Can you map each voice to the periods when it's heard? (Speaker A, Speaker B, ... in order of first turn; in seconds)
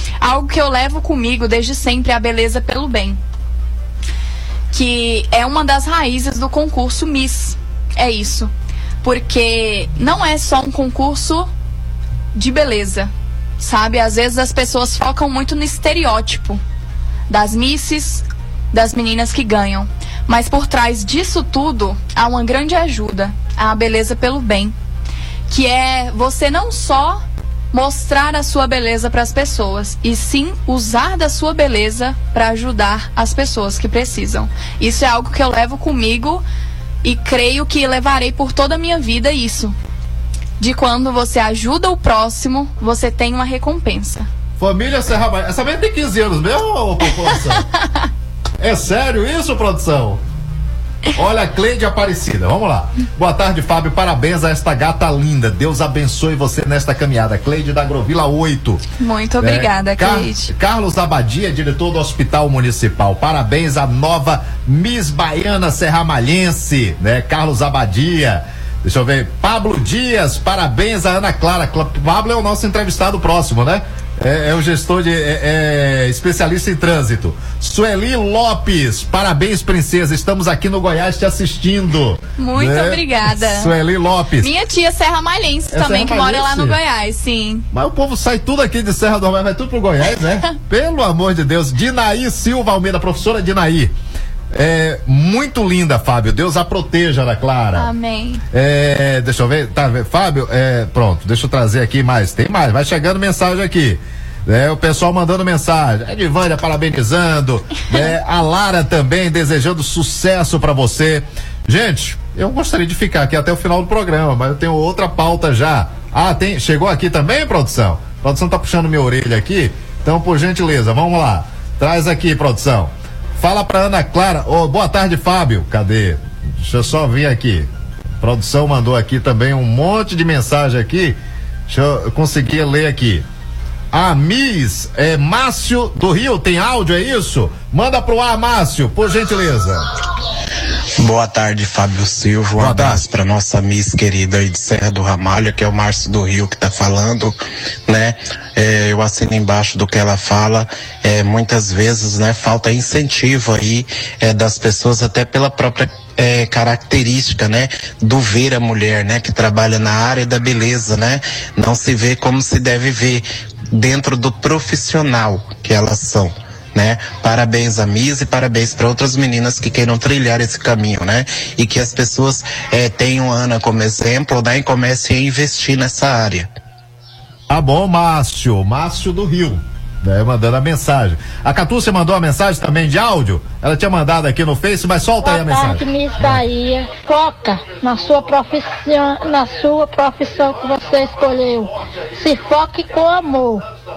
Speaker A: 0.2-3.2, 4.7-8.5, 9.0-11.5, 12.3-16.6, 17.3-24.7, 25.5-36.4, 37.0-39.7, 40.6-44.3, 47.2-47.6, 59.0-60.5, 82.4-83.8, 84.4-87.7, 97.7-98.4
Speaker B: 44.6-47.6, 48.6-50.2, 51.1-58.8, 59.4-84.5, 85.7-86.8, 87.7-93.9, 94.5-97.9, 98.5-127.7, 128.2-133.2, 133.9-139.8, 142.6-143.0, 177.5-186.4
Speaker C: 141.0-147.3, 147.9-176.5
Speaker D: 185.2-193.6